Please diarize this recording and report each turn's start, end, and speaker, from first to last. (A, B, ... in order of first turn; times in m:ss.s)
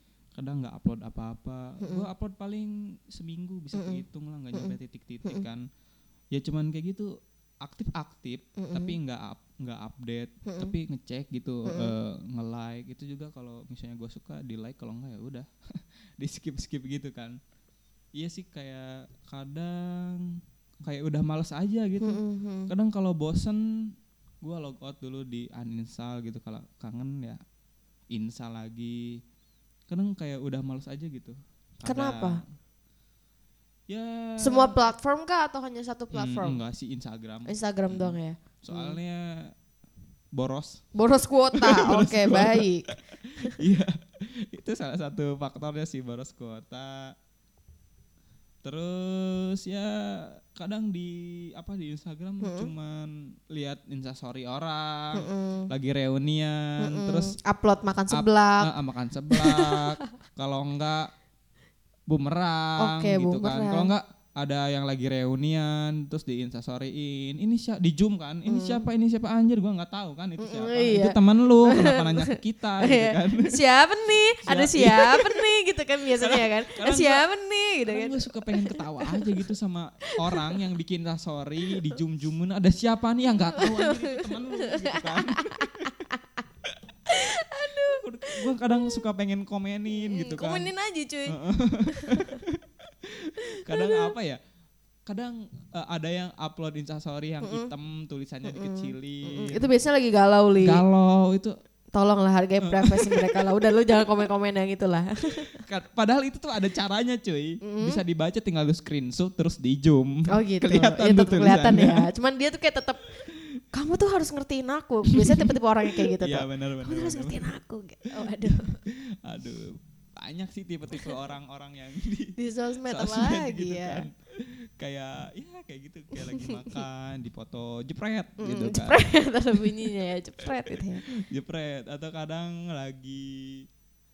0:00.3-0:05.6 A
0:01.8-0:02.0 B
0:03.7-0:04.0 B
0:04.5-0:05.4 B
0:06.3-0:17.4 A
0:08.6-0:09.0 B
0:10.4-0:10.7 B
0:11.6-0:11.9 B
0:18.2-0:23.6 A
0:22.0-0:22.7 B
0:24.4-0:27.4 A
0:28.1-0:29.2 A
0:29.9-0:32.4 A
0:31.8-0:32.4 B
0:33.9-0:34.8 A
0:34.4-0:36.6 B
0:36.1-0:39.5 A
0:37.5-0:39.0 B
0:40.3-0:40.8 A
0:40.9-0:43.5 B
0:41.5-0:47.1 A
0:48.6-0:57.4 A
0:52.4-0:52.7 B
0:55.1-0:55.7 B
0:56.8-0:58.7 B
0:58.1-1:01.1 A
0:59.3-0:59.8 B
1:02.1-1:13.6 A
1:02.8-1:03.9 B
1:08.5-1:08.8 B
1:10.4-1:19.4 B
1:14.4-1:15.4 A
1:16.2-1:17.2 A
1:17.8-1:26.1 A
1:23.6-1:26.2 B
1:27.1-1:28.3 B
1:27.8-1:30.7 A
1:29.9-1:32.4 B
1:31.3-1:34.4 A
1:33.7-1:34.1 B
1:35.1-1:39.7 A
1:37.4-1:37.7 B
1:38.5-1:40.8 B
1:40.6-1:41.5 A
1:41.9-1:45.6 B
1:42.6-1:43.6 A
1:45.6-1:52.1 A
1:47.6-1:48.0 B
1:50.3-1:53.1 B
1:53.7-1:58.8 B
1:55.1-1:55.4 A
1:56.0-1:57.5 A
1:58.2-2:02.3 A
2:02.4-2:04.1 B
2:02.8-2:09.7 A
2:08.4-2:11.0 B
2:11.1-2:13.6 A